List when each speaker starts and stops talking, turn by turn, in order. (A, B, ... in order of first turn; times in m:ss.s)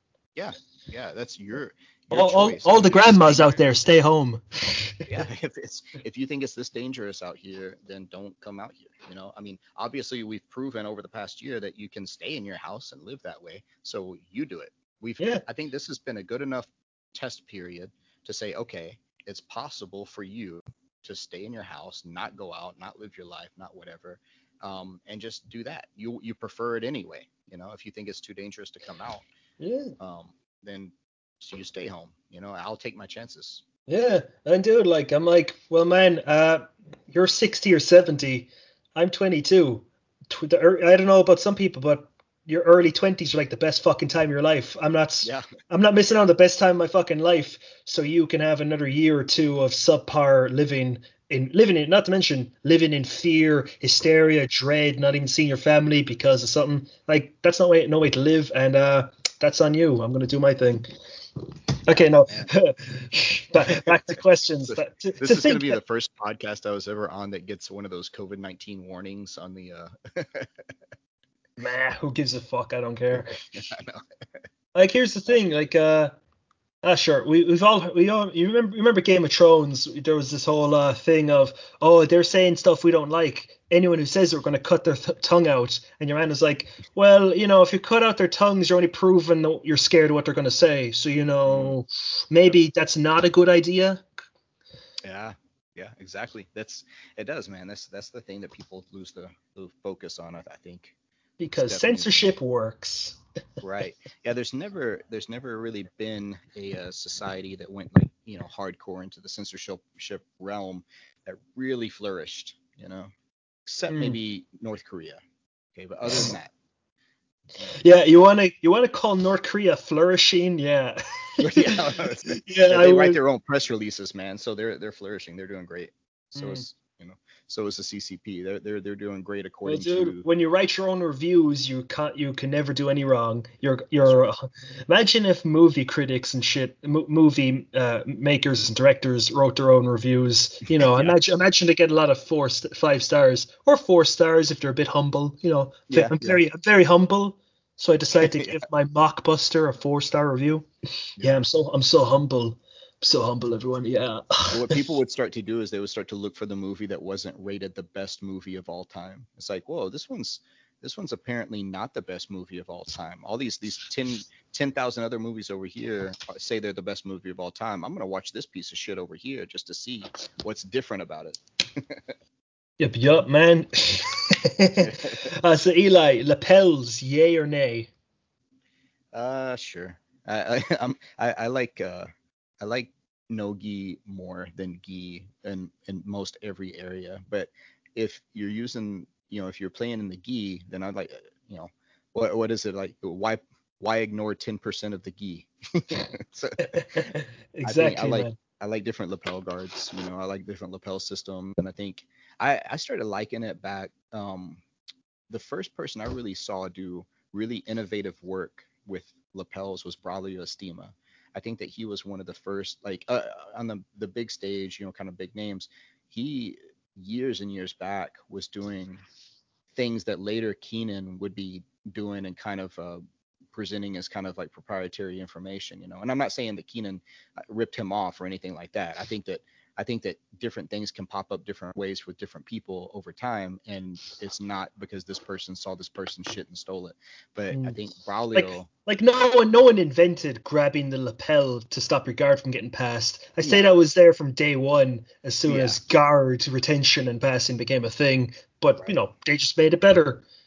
0:00.4-0:03.6 A
0:02.1-0:05.0 B
0:05.0-0:29.3 A
0:15.2-0:15.4 B
0:29.6-0:29.9 B
0:30.0-0:33.6 A
0:33.9-1:00.9 B
1:01.4-1:05.8 B
1:03.7-1:10.5 A
1:11.6-1:13.4 B
1:13.5-1:14.0 A
1:14.8-1:16.1 B
1:16.8-1:34.0 B
1:31.4-1:31.8 A
1:35.0-1:41.0 A
1:41.4-1:43.2 B
1:41.6-1:42.3 A
1:43.6-1:53.1 A
1:53.7-1:55.2 A
1:53.9-1:54.2 B
1:55.8-1:56.5 A
1:57.6-1:57.8 A
1:57.7-2:03.2 B
2:01.4-2:10.2 A
2:06.4-2:06.6 B
2:09.6-2:30.7 B
2:20.7-2:21.2 A
2:25.9-2:26.4 A
2:28.2-2:28.6 A
2:31.2-2:34.8 B
2:34.5-2:52.0 A
2:52.8-2:57.9 B
2:54.8-2:55.3 A
2:59.1-3:02.1 A
3:02.6-3:24.6 A
3:16.7-3:18.4 B
3:25.3-3:39.0 A
3:39.8-3:43.0 A
3:43.5-3:58.7 A
3:57.5-3:57.8 B
3:58.4-4:10.2 B
4:05.5-4:05.8 A